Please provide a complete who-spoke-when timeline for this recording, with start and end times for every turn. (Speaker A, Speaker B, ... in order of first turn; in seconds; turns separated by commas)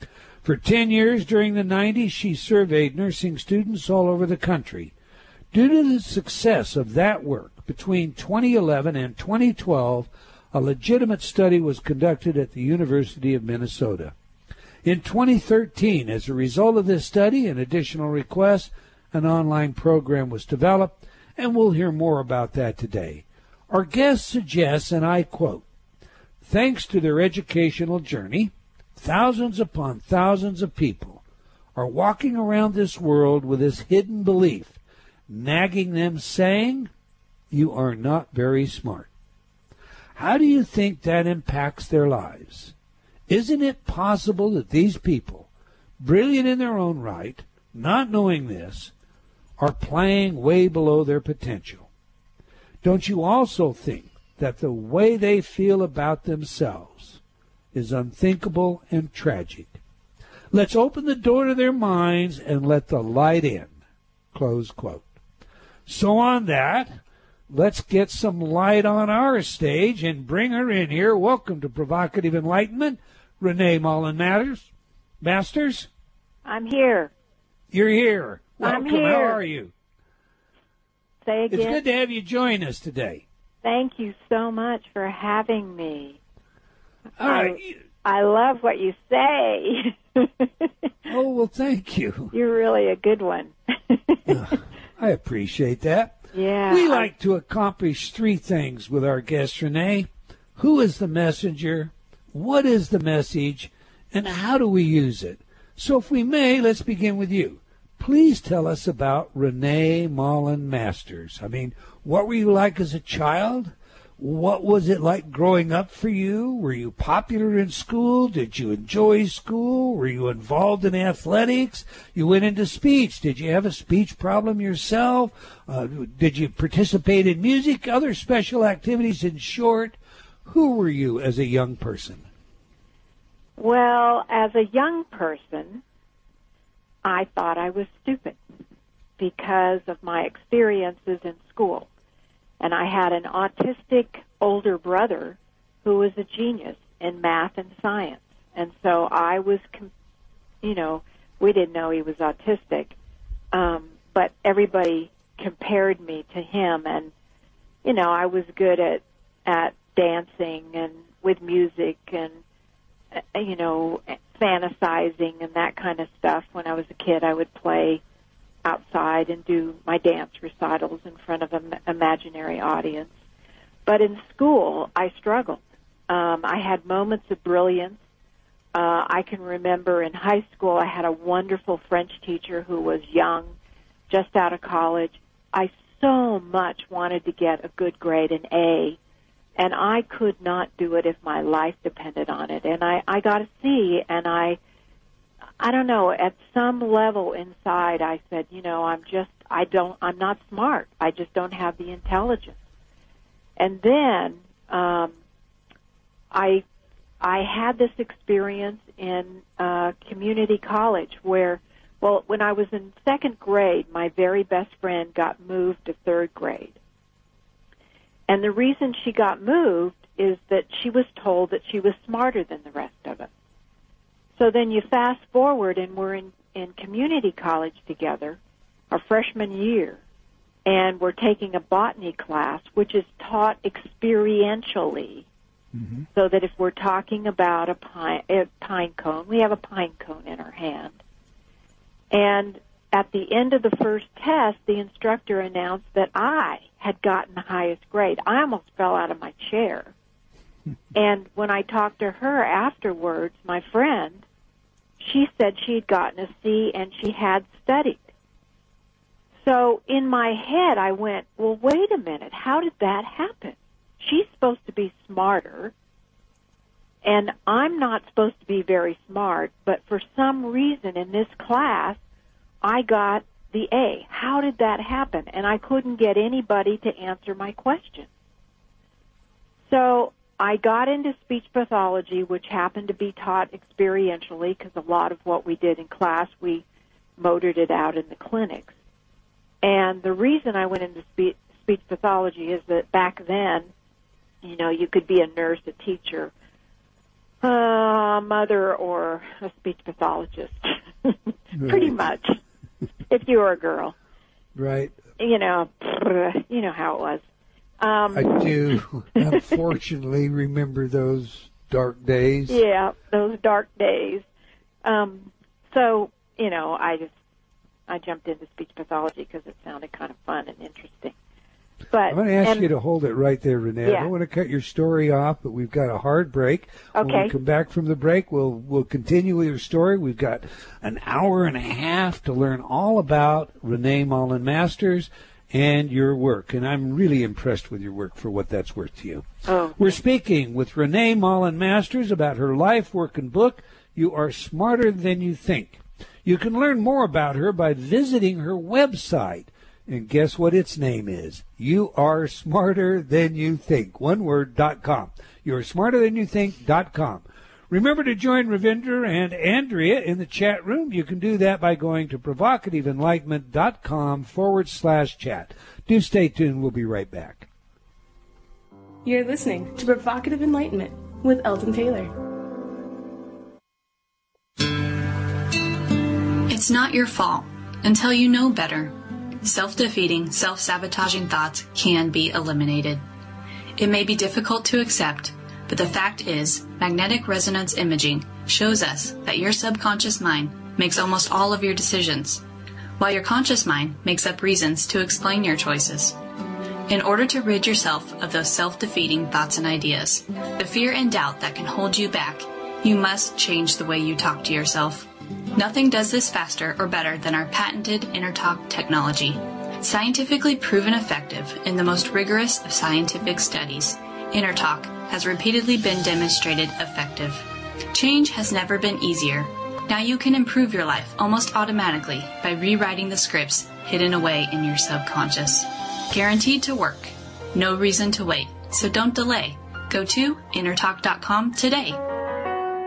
Speaker A: 0.4-4.9, Speaker A: 5.5-14.1, Speaker A: 14.8-25.6, Speaker A: 26.4-31.2, Speaker A: 31.7-36.9, Speaker A: 37.5-39.1, Speaker A: 40.1-42.7, Speaker A: 43.3-45.5, Speaker A: 46.0-48.9, Speaker A: 49.6-51.9, Speaker A: 52.8-57.2, Speaker A: 57.7-59.8, Speaker A: 60.5-63.7, Speaker A: 64.3-65.0, Speaker A: 65.9-66.9, Speaker A: 67.5-74.7, Speaker A: 75.2-75.9, Speaker B: 76.4-77.1, Speaker A: 77.7-79.7, Speaker B: 78.6-79.4, Speaker B: 81.2-81.8, Speaker A: 81.5-83.2, Speaker B: 83.6-86.2, Speaker A: 87.2-87.7, Speaker B: 87.2-90.9, Speaker A: 91.1-92.3, Speaker B: 92.3-94.4, Speaker A: 94.3-132.2, Speaker B: 96.3-97.1, Speaker B: 133.6-135.8, Speaker B: 137.0-138.4, Speaker B: 139.2-141.9, Speaker B: 142.6-149.9, Speaker B: 150.6-152.9, Speaker B: 153.5-157.1, Speaker B: 157.8-162.3, Speaker B: 163.3-168.0, Speaker B: 168.6-173.1, Speaker B: 173.8-178.0, Speaker B: 178.7-183.5, Speaker B: 184.1-189.0, Speaker B: 189.6-194.6, Speaker B: 195.6-202.6, Speaker B: 203.6-205.1, Speaker B: 206.3-206.6, Speaker B: 207.2-216.8, Speaker B: 218.3-223.3, Speaker B: 224.4-228.4, Speaker B: 228.9-230.0, Speaker B: 230.7-235.2, Speaker A: 235.8-236.0, Speaker B: 236.1-241.0, Speaker B: 242.1-249.9, Speaker B: 250.9-254.2, Speaker B: 255.0-258.0, Speaker B: 259.4-265.7, Speaker B: 267.0-272.0, Speaker B: 272.6-278.1, Speaker B: 279.7-286.6, Speaker B: 287.2-288.7, Speaker B: 289.6-293.7, Speaker B: 294.4-296.3, Speaker B: 297.4-302.4, Speaker A: 301.5-301.9, Speaker B: 303.1-303.9, Speaker A: 304.6-304.9, Speaker B: 305.2-307.2, Speaker B: 307.8-308.5, Speaker A: 308.1-312.6, Speaker B: 312.5-314.2, Speaker B: 314.8-317.1, Speaker B: 317.9-321.1, Speaker B: 321.9-322.7, Speaker A: 322.1-339.2, Speaker B: 323.8-324.1, Speaker B: 326.9-327.3, Speaker B: 339.4-340.0, Speaker A: 339.8-367.5, Speaker C: 369.0-372.1, Speaker D: 376.5-383.0, Speaker D: 383.8-392.4, Speaker D: 393.0-396.2, Speaker D: 396.9-432.0